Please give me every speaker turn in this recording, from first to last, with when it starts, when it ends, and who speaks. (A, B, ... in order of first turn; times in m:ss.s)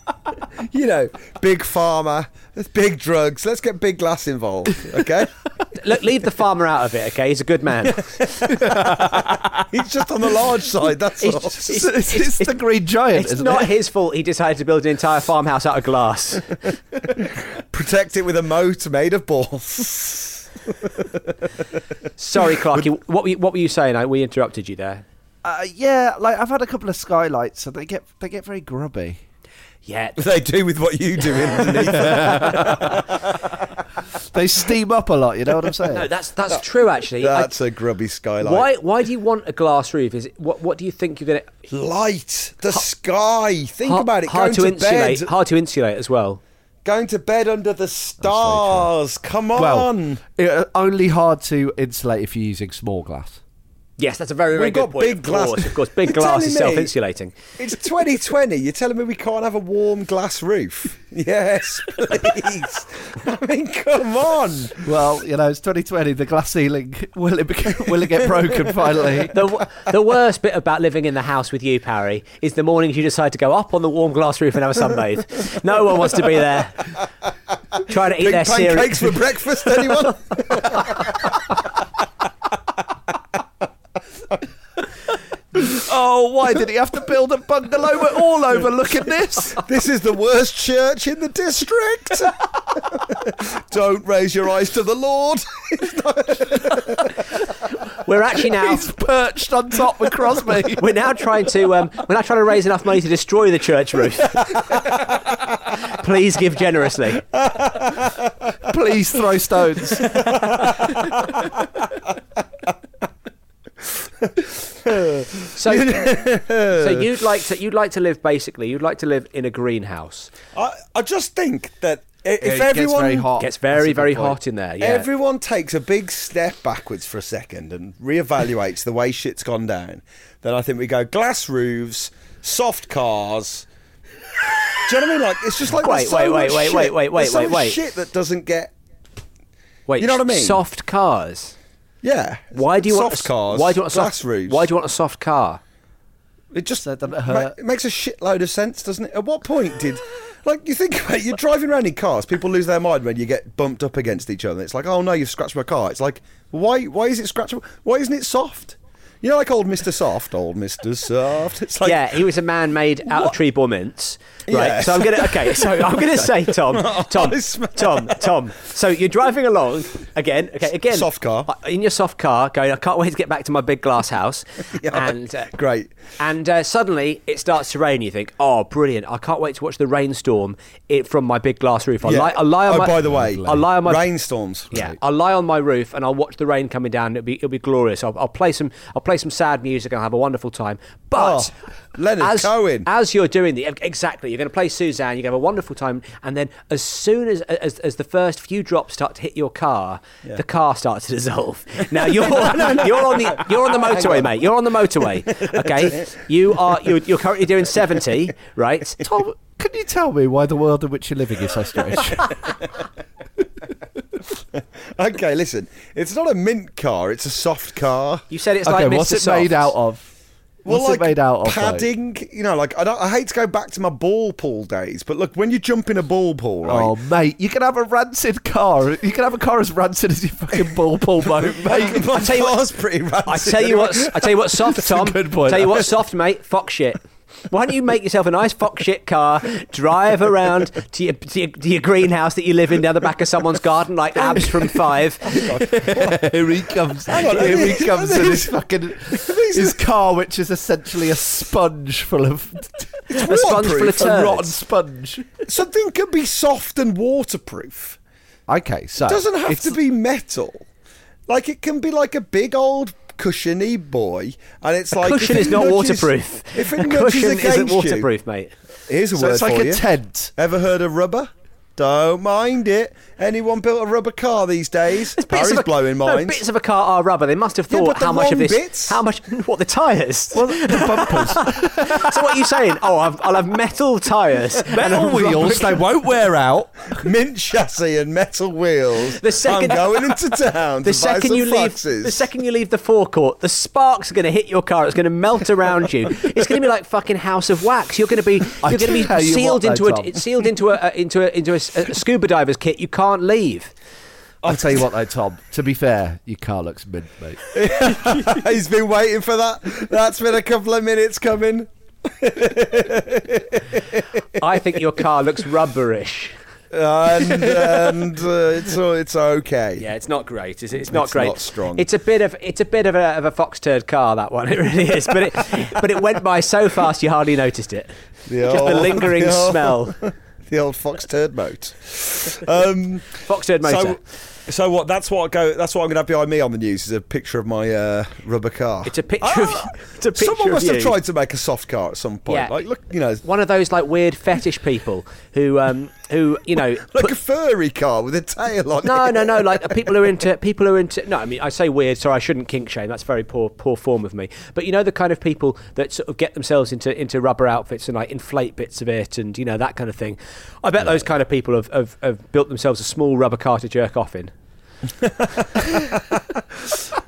0:00.6-0:05.3 A
0:05.8-0:08.5 B
0:08.2-0:11.8 A
0:08.9-0:09.4 C
0:11.2-0:12.6 B
0:11.3-0:13.7 C
0:13.1-0:16.6 B
0:17.1-0:21.4 A
0:22.2-0:25.0 B
0:22.4-0:22.9 A
0:25.4-0:29.2 C
0:29.8-0:30.2 B
0:30.2-0:33.6 A
0:31.9-0:32.8 C
0:34.3-0:36.1 C
0:35.9-0:37.5 B
0:37.2-0:38.7 A
0:38.4-0:41.6 B
0:41.7-0:45.3 A
0:43.8-0:46.4 B
0:46.8-0:50.2 A
0:48.2-0:48.9 C
0:49.6-0:53.4 C
0:54.0-0:57.4 B
0:54.5-0:56.9 A
0:57.6-1:04.8 A
1:04.8-1:09.4 C
1:09.3-1:17.0 B
1:17.8-1:19.2 B
1:18.1-1:21.3 A
1:25.5-1:29.6 C
1:29.6-1:37.1 A
1:37.9-1:38.9 B
1:38.4-1:41.0 C
1:40.8-1:44.6 B
1:44.7-1:45.0 A
1:45.8-1:47.2 B
1:47.3-1:48.3 A
1:48.6-1:50.2 C
1:50.1-1:51.8 A
1:54.0-1:57.1 A
1:55.6-1:56.1 B
1:56.7-2:00.3 B
2:00.5-2:03.3 A
2:02.4-2:04.4 C
2:03.4-2:05.1 B
2:04.8-2:13.7 A
2:14.8-2:18.7 A
2:15.7-2:17.8 B
2:19.9-2:21.6 B
2:20.0-2:20.6 A
2:22.0-2:24.7 A
2:22.6-2:25.6 B
2:26.5-2:42.2 A
2:26.8-2:27.6 C
2:41.8-2:55.5 B
2:44.5-2:48.3 A
2:50.9-2:51.5 A
2:54.8-2:55.9 A
2:56.2-3:04.1 B
3:02.0-3:04.7 A
3:04.7-3:11.5 B
3:11.2-3:12.9 A
3:12.2-3:29.0 B
3:22.0-3:24.3 A
3:25.4-3:26.0 A
3:29.0-3:32.5 C
3:34.6-3:38.2 A
3:38.3-3:39.7 B
3:38.6-3:40.1 C
3:40.6-3:46.9 A
3:40.7-3:41.9 C
3:46.7-3:52.1 C
3:51.4-3:54.5 A
3:52.1-3:52.6 B
3:53.3-4:05.5 B
3:54.7-3:55.9 C
4:05.3-4:06.3 A
4:05.4-4:13.1 C
4:07.1-4:09.8 A
4:13.1-4:14.3 A
4:13.2-4:14.6 B
4:13.7-4:15.4 C
4:15.5-4:18.0 A
4:18.5-4:19.8 C
4:19.0-4:20.7 A
4:21.3-4:28.1 A
4:24.9-4:28.5 B
4:28.9-4:36.4 A
4:29.1-4:30.3 C
4:35.2-4:45.8 B
4:37.7-4:39.0 A
4:40.3-4:42.2 C
4:44.7-4:47.0 C
4:47.0-4:52.3 A
4:49.2-4:50.2 B
4:50.8-5:03.7 B
4:58.6-5:00.3 C
5:04.4-5:04.8 A
5:04.4-5:07.5 C
5:07.5-5:14.2 A
5:14.4-5:16.4 B
5:16.7-5:19.8 A
5:19.8-5:30.0 B
5:20.8-5:21.9 A
5:28.3-5:43.2 A
5:33.2-5:34.0 B
5:38.8-5:41.0 B
5:42.3-5:42.6 B
5:43.2-5:47.2 B
5:46.8-5:49.9 A
5:48.8-6:04.3 B
6:05.0-6:06.9 A